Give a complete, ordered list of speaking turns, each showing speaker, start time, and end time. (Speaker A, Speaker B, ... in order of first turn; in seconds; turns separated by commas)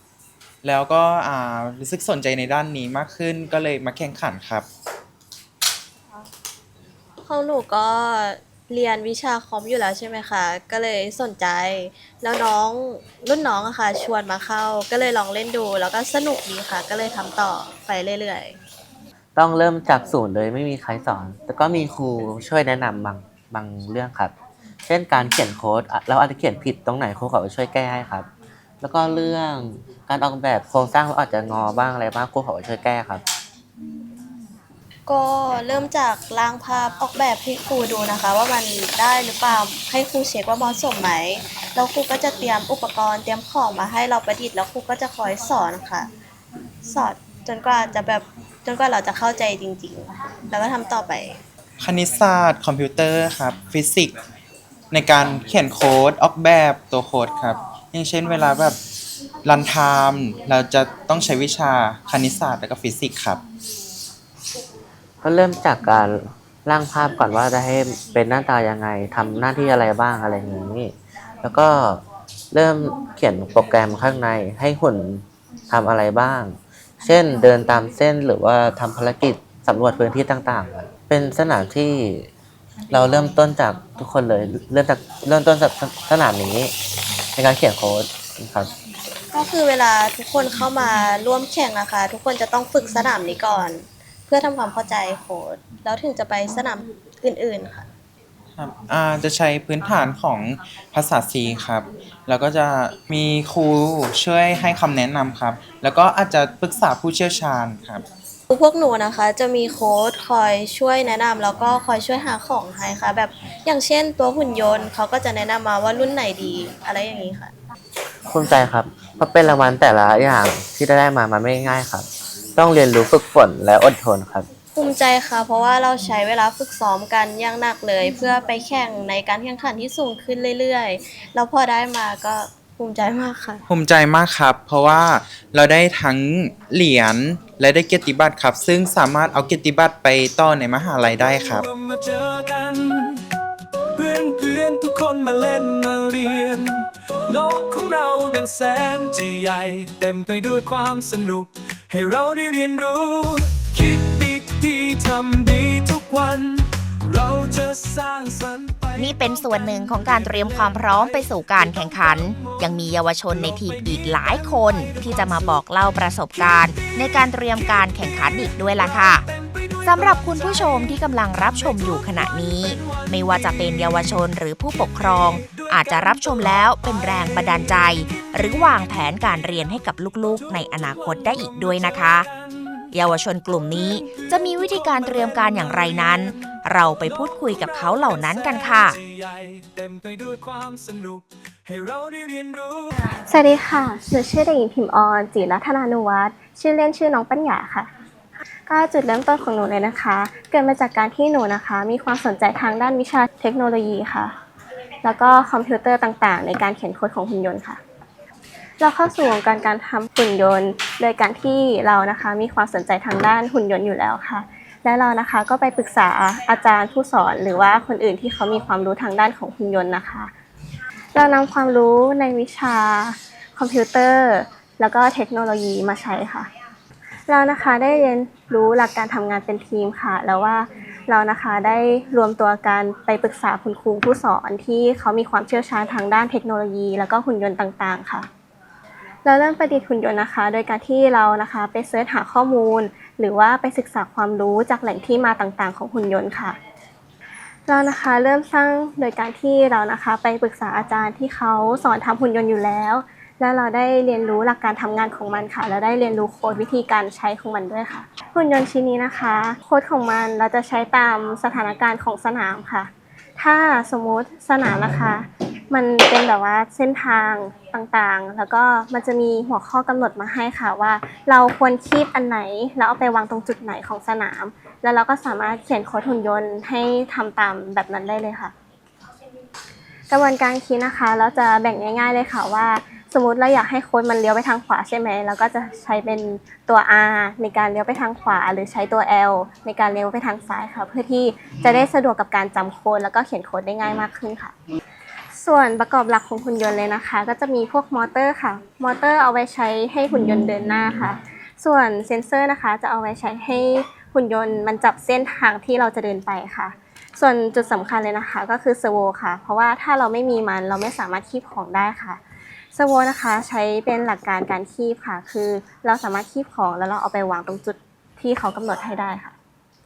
Speaker A: 0.6-4.7, Speaker B: 7.2-18.6, Speaker C: 19.4-28.3, Speaker C: 28.8-33.2, Speaker B: 35.1-46.1, Speaker B: 46.9-51.4, Speaker A: 51.8-54.2, Speaker A: 54.9-58.8, Speaker A: 59.4-63.4, Speaker C: 65.2-82.3, Speaker C: 82.9-86.8, Speaker C: 87.3-88.7, Speaker B: 89.3-97.9, Speaker A: 98.6-108.1, Speaker B: 108.5-117.5, Speaker C: 118.3-124.5, Speaker B: 124.8-133.6, Speaker A: 133.7-141.7, Speaker D: 141.3-143.2, Speaker D: 143.9-174.2, Speaker E: 159.0-169.2, Speaker E: 169.8-182.3, Speaker D: 174.9-178.8, Speaker D: 180.3-182.9, Speaker E: 182.9-189.0, Speaker D: 183.7-193.1, Speaker F: 193.3-197.9, Speaker F: 198.7-204.3, Speaker F: 205.0-207.8, Speaker F: 208.8-220.3, Speaker F: 221.2-226.5, Speaker F: 227.3-238.3, Speaker F: 239.2-246.6, Speaker F: 247.7-278.5, Speaker F: 280.1-294.5, Speaker F: 295.4-312.2, Speaker F: 312.7-319.3